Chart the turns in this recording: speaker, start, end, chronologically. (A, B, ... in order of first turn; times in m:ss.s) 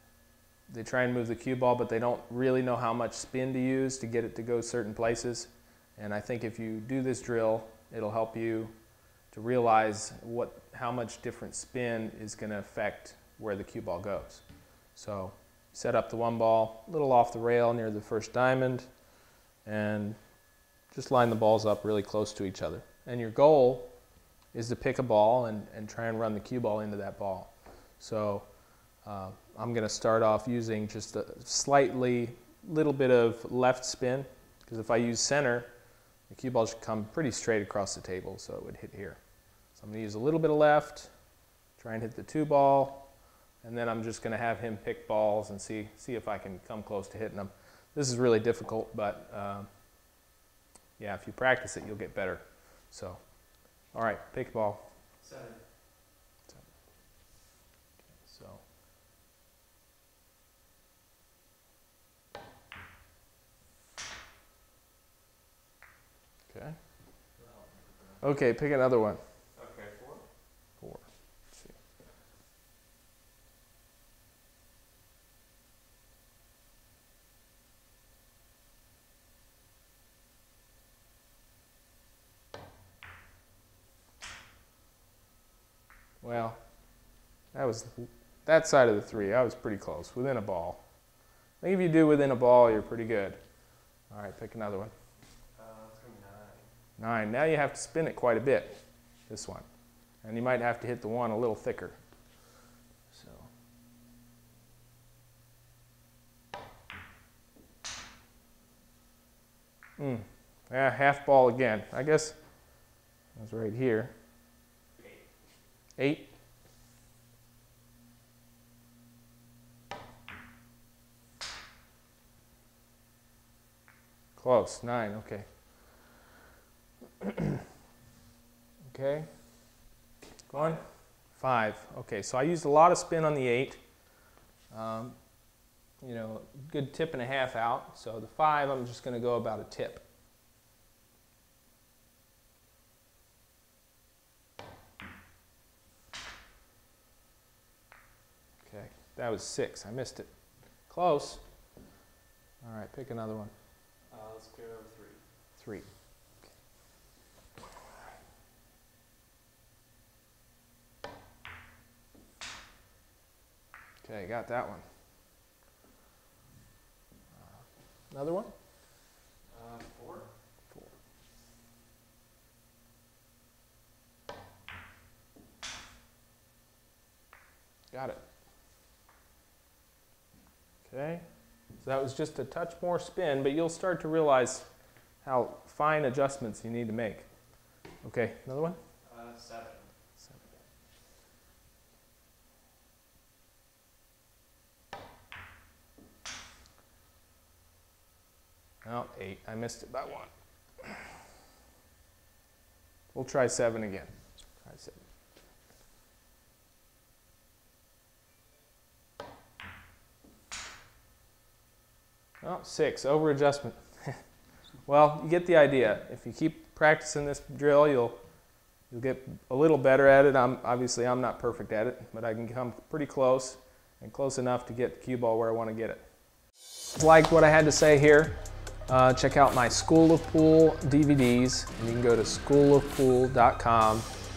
0:00.7-0:19.0 A
0:19.6-0:49.8 A
0:51.0-0:54.9 A
0:55.2-0:55.6 B
0:56.5-0:56.8 A
0:58.1-0:58.6 A
1:06.5-1:06.8 A
1:07.4-1:08.2 B
1:08.2-1:09.2 A
1:09.5-1:10.2 B
1:10.8-1:11.8 A
1:26.2-1:34.9 A
1:35.5-1:36.7 B
1:37.0-1:42.0 A
1:43.1-1:43.5 A
1:50.0-1:54.2 A
1:55.0-1:55.2 B
1:56.0-1:56.4 A
2:04.4-2:06.2 A
2:08.8-2:09.7 A
2:10.5-2:14.1 A
2:10.5-2:10.9 B
2:14.7-2:20.0 A
2:28.6-2:31.4 A
2:32.6-2:33.5 A
2:34.1-2:35.2 B
2:35.6-2:35.9 A
2:44.0-2:44.9 A
2:47.4-2:48.5 A
2:49.5-2:50.3 B
2:57.9-2:58.2 A
3:00.8-3:08.8 A
3:09.0-3:09.9 B
3:18.8-3:21.0 A
3:23.1-3:25.0 A
3:32.4-3:34.3 A
3:34.8-3:38.3 A
3:38.8-3:46.2 A
3:46.9-3:54.1 A